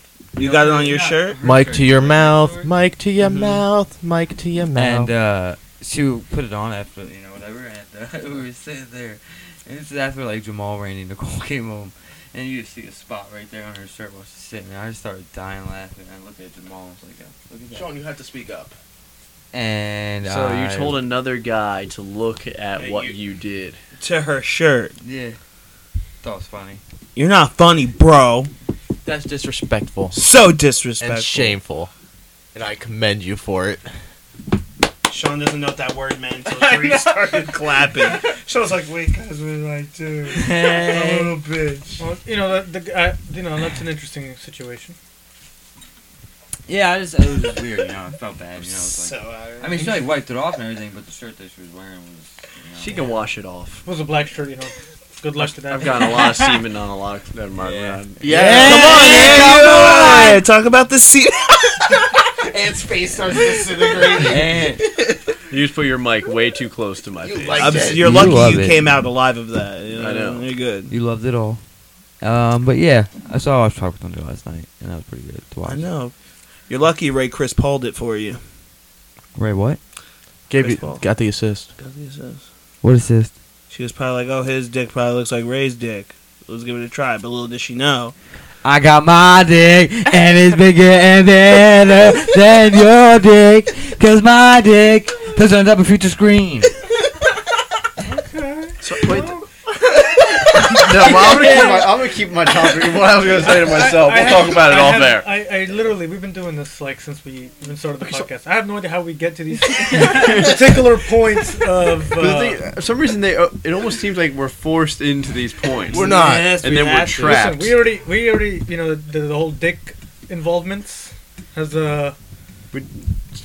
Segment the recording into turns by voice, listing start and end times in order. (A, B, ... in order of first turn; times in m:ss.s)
0:00.4-0:01.4 A
0:00.4-0:02.7 B
0:01.4-0:05.1 C
0:03.2-0:03.6 A
0:04.8-0:18.0 B
0:17.7-0:18.7 C
0:19.5-0:21.0 B
0:20.2-0:23.8 D
0:22.8-0:23.2 A
0:24.0-0:25.0 A
0:25.0-0:25.4 B
0:26.2-0:26.8 B
0:27.2-0:28.5 A
0:29.0-0:30.2 C
0:30.1-0:31.6 A
0:31.0-0:31.9 C
0:32.5-0:33.8 C
0:35.1-0:42.0 A
0:40.3-0:41.4 B
0:42.0-0:45.0 E
0:46.7-0:53.2 B
0:48.6-0:50.1 A
0:52.8-0:53.8 D
0:53.8-0:56.5 E
0:55.5-0:58.2 D
0:57.6-1:00.4 B
0:58.2-1:00.2 C
0:58.3-1:04.9 A
1:02.5-1:04.6 C
1:04.2-1:04.8 B
1:05.5-1:07.9 D
1:07.2-1:08.4 C
1:07.5-1:10.9 A
1:08.0-1:08.9 B
1:10.0-1:10.5 D
1:10.9-1:11.6 B
1:12.2-1:15.9 B
1:15.7-1:16.1 A
1:16.7-1:18.4 A
1:19.4-1:19.8 B
1:20.5-1:21.7 C
1:20.6-1:21.0 A
1:21.8-1:22.4 A
1:22.8-1:23.3 B
1:23.7-1:28.1 A
1:28.6-1:36.8 B
1:38.0-1:39.5 E
1:38.8-1:39.4 D
1:40.6-1:45.3 D
1:41.0-1:42.1 E
1:41.1-1:41.8 B
1:43.4-1:52.7 E
1:48.0-1:48.3 D
1:49.8-1:50.9 D
1:52.0-1:57.8 D
1:55.9-1:57.2 C
1:55.9-1:57.4 A
1:57.2-2:02.2 E
2:02.7-2:03.1 D